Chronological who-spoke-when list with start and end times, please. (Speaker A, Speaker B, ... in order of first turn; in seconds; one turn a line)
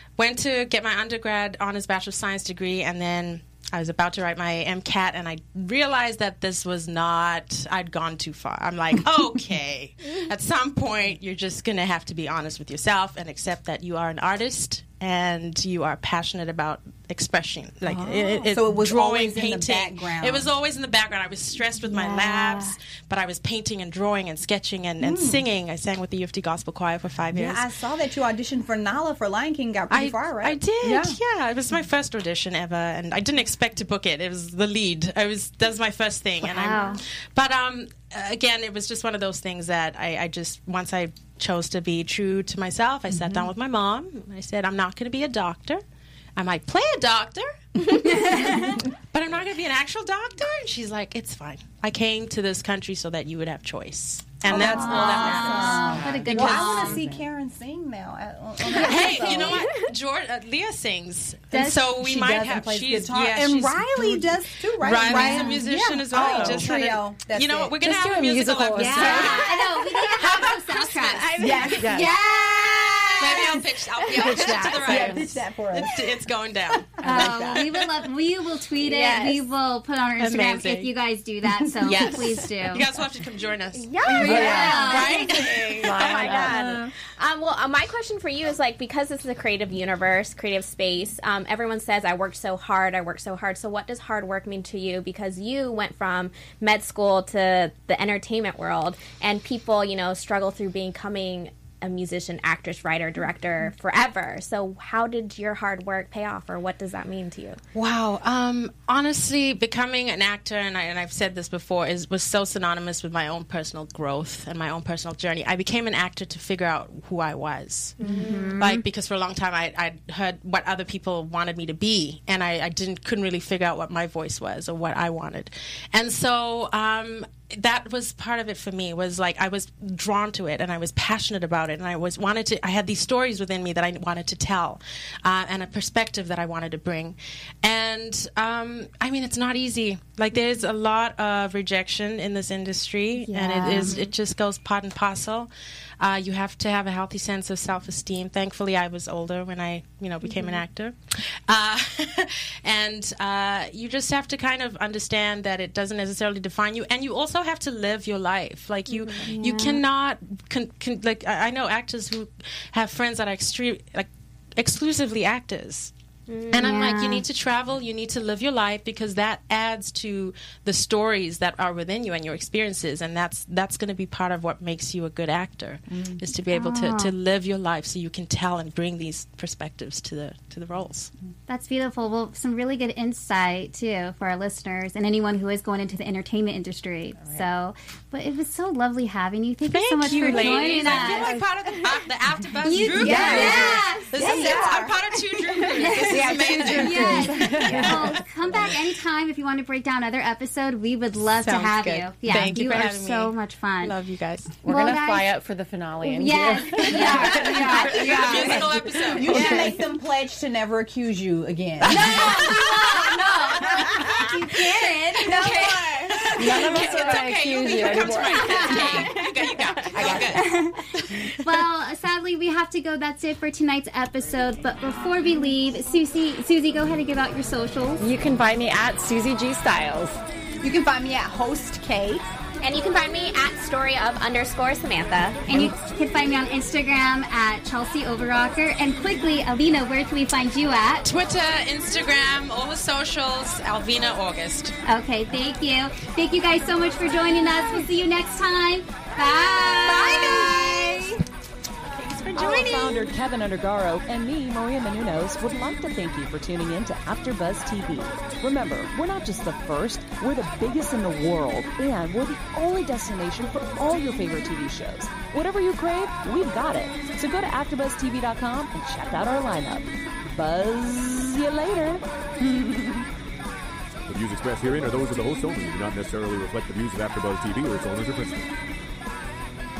Speaker A: 0.2-27.7
Speaker B: 17.9-20.5
Speaker C: 21.8-22.8
Speaker B: 25.0-25.4
Speaker B: 27.3-31.2
Speaker A: 29.9-45.8
Speaker C: 36.4-37.0
Speaker B: 43.1-43.5
Speaker A: 46.4-57.0
Speaker C: 48.1-48.8
Speaker B: 54.5-59.7
Speaker C: 54.5-57.0
Speaker D: 55.1-57.2
Speaker A: 58.7-69.5
Speaker B: 61.5-67.8
Speaker C: 65.1-65.6
Speaker D: 66.1-66.7
Speaker D: 67.8-69.5
Speaker C: 68.8-73.6
Speaker E: 69.0-73.6
Speaker A: 70.2-71.7
Speaker B: 71.4-72.1
Speaker D: 71.8-72.1
Speaker A: 73.2-77.9
Speaker D: 74.2-75.4
Speaker E: 74.2-74.8
Speaker B: 74.8-75.9
Speaker B: 77.0-77.6
Speaker C: 77.0-82.9
Speaker D: 77.1-77.4
Speaker E: 78.8-79.5
Speaker A: 80.2-80.9
Speaker A: 81.8-86.9
Speaker E: 82.0-82.3
Speaker E: 83.7-107.6
Speaker C: 84.0-85.3
Speaker D: 84.1-85.1
Speaker B: 84.2-84.8
Speaker D: 85.8-86.8
Speaker A: 107.7-165.9
Speaker E: 118.0-118.6
Speaker C: 118.0-118.8
Speaker C: 143.2-144.0
Speaker E: 143.8-144.1
Speaker E: 150.3-150.6
Speaker E: 158.9-159.3
Speaker C: 159.3-159.8
Speaker E: 166.3-166.8
Speaker A: 166.5-181.1
Speaker C: 166.6-167.2
Speaker C: 176.5-177.1
Speaker C: 181.5-191.3
Speaker A: 189.7-197.8
Speaker E: 190.5-191.9
Speaker C: 192.6-194.5
Speaker D: 193.0-193.8
Speaker B: 193.0-194.9
Speaker E: 193.0-194.8
Speaker E: 195.4-195.9
Speaker D: 196.0-198.7
Speaker C: 196.8-203.9
Speaker A: 201.3-204.6
Speaker D: 204.6-208.7
Speaker C: 204.7-205.3
Speaker C: 206.0-209.8
Speaker A: 206.9-209.6
Speaker E: 208.0-208.5
Speaker B: 209.1-212.5
Speaker D: 209.3-209.6
Speaker A: 211.9-214.3
Speaker C: 211.9-215.8
Speaker E: 215.3-217.2
Speaker A: 215.3-221.4
Speaker D: 216.4-218.8
Speaker E: 218.4-220.2
Speaker C: 218.4-219.1
Speaker B: 219.9-220.4
Speaker C: 220.0-220.8
Speaker C: 221.3-228.0
Speaker D: 228.0-230.2
Speaker B: 230.6-232.3
Speaker E: 232.6-235.5
Speaker C: 235.5-241.1
Speaker A: 241.1-244.8
Speaker C: 244.9-250.5
Speaker A: 249.8-251.2
Speaker A: 252.0-253.1
Speaker F: 252.3-272.0
Speaker G: 274.1-278.5